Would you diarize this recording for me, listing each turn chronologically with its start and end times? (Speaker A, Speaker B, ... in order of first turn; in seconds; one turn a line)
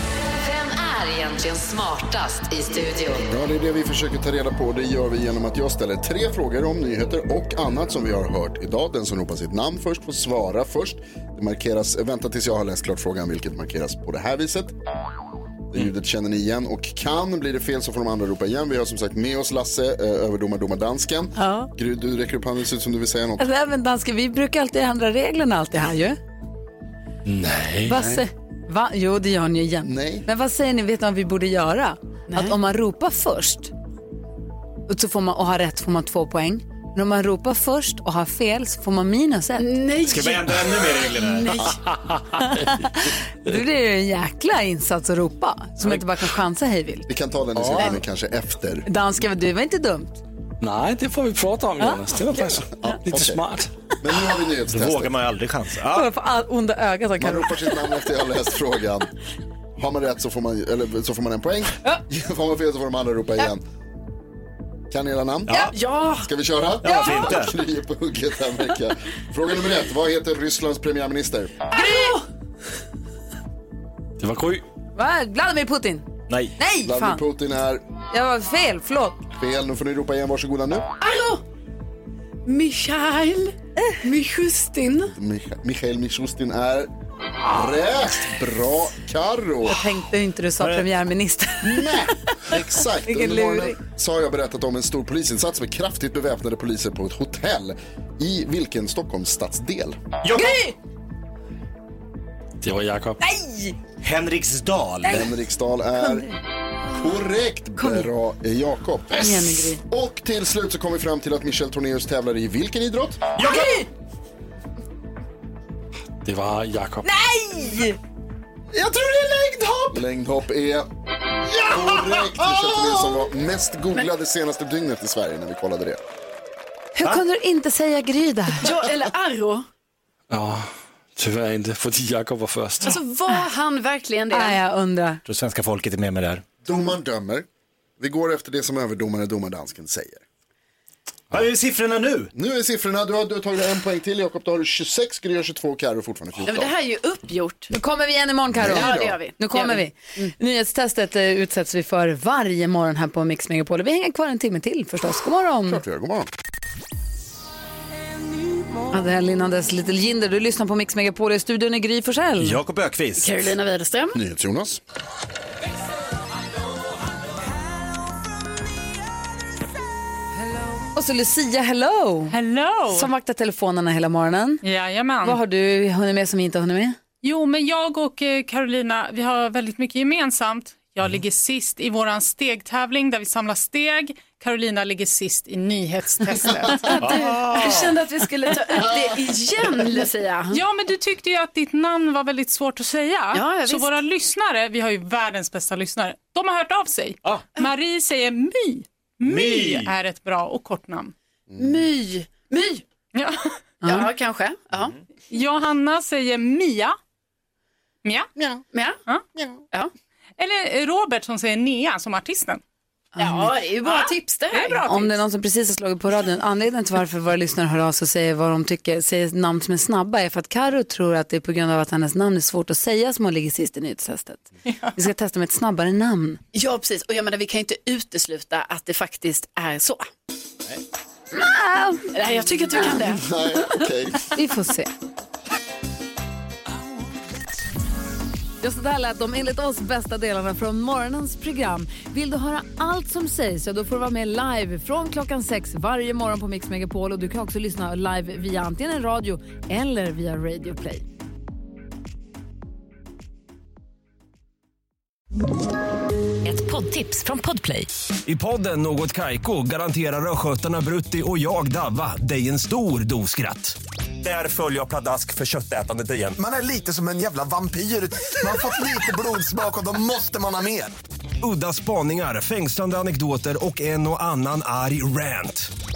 Speaker A: 0.3-3.3
Speaker B: 3.3-14.7
Speaker B: 15.7-23.4
Speaker C: 21.4-21.7
Speaker C: 23.4-26.2
Speaker D: 27.2-28.0
Speaker C: 27.9-33.7
Speaker B: 27.9-28.2
Speaker B: 29.8-30.2
Speaker C: 34.9-39.8
Speaker E: 39.6-41.7
Speaker F: 40.0-41.6
Speaker C: 42.4-47.1
Speaker B: 47.1-48.8
Speaker C: 48.8-50.2
Speaker D: 50.6-53.7
Speaker B: 52.7-53.4
Speaker B: 54.0-55.2
Speaker F: 54.7-56.1
Speaker C: 55.9-57.8
Speaker B: 57.2-59.1
Speaker B: 59.8-63.6
Speaker B: 64.9-71.5
Speaker F: 65.5-65.7
Speaker E: 65.5-66.3
Speaker F: 66.8-67.5
Speaker E: 71.7-72.2
Speaker D: 74.2-74.6
Speaker C: 75.0-76.1
Speaker C: 76.6-77.2
Speaker B: 76.8-77.8
Speaker C: 78.1-79.2
Speaker B: 79.4-80.9
Speaker E: 81.0-81.4
Speaker E: 82.4-85.1
Speaker B: 85.1-86.9
Speaker B: 87.5-89.8
Speaker C: 89.7-93.8
Speaker B: 91.6-100.0
Speaker F: 100.2-100.6
Speaker C: 100.3-100.7
Speaker D: 102.6-103.2
Speaker C: 103.2-103.7
Speaker F: 104.0-105.2
Speaker B: 105.1-106.3
Speaker C: 106.0-106.3
Speaker B: 106.9-113.2
Speaker C: 107.8-108.1
Speaker C: 109.2-109.8
Speaker F: 113.4-113.7
Speaker C: 113.4-113.8
Speaker D: 116.2-117.1
Speaker C: 117.0-118.0
Speaker B: 119.9-120.9
Speaker B: 121.7-126.0
Speaker C: 126.9-128.7
Speaker E: 128.6-129.7
Speaker D: 130.3-133.0
Speaker E: 132.8-134.6
Speaker C: 134.3-135.2
Speaker F: 135.2-136.4
Speaker B: 136.6-137.4
Speaker B: 138.0-140.2
Speaker F: 141.3-142.3
Speaker B: 142.3-146.7
Speaker E: 146.4-147.7
Speaker C: 147.7-155.8
Speaker B: 148.5-149.2
Speaker E: 148.6-150.3
Speaker B: 155.7-156.3
Speaker C: 158.9-162.6
Speaker F: 162.4-163.4
Speaker E: 163.2-164.2
Speaker B: 164.1-164.8
Speaker C: 170.9-172.3
Speaker G: 172.3-173.1
Speaker C: 172.9-174.6
Speaker G: 174.6-175.4
Speaker C: 175.2-177.0
Speaker G: 177.2-187.1
Speaker E: 186.7-190.6
Speaker F: 187.0-187.9
Speaker C: 188.1-188.7
Speaker G: 190.5-201.1
Speaker E: 193.3-193.9
Speaker F: 199.2-199.9
Speaker E: 201.6-202.8
Speaker G: 203.1-203.4
Speaker C: 203.8-204.1
Speaker E: 203.8-204.9
Speaker G: 205.3-207.0
Speaker G: 208.0-208.3
Speaker E: 208.7-209.0
Speaker G: 210.4-212.6
Speaker C: 213.2-213.5
Speaker E: 213.2-214.8
Speaker G: 213.8-215.2
Speaker C: 214.8-226.4
Speaker E: 226.5-230.1
Speaker C: 231.3-232.1
Speaker E: 232.1-233.2
Speaker B: 233.1-234.3
Speaker C: 234.3-234.9
Speaker C: 238.6-251.0
Speaker A: 256.4-257.9
Speaker H: 258.2-266.4
Speaker I: 266.4-270.9
Speaker H: 271.4-275.7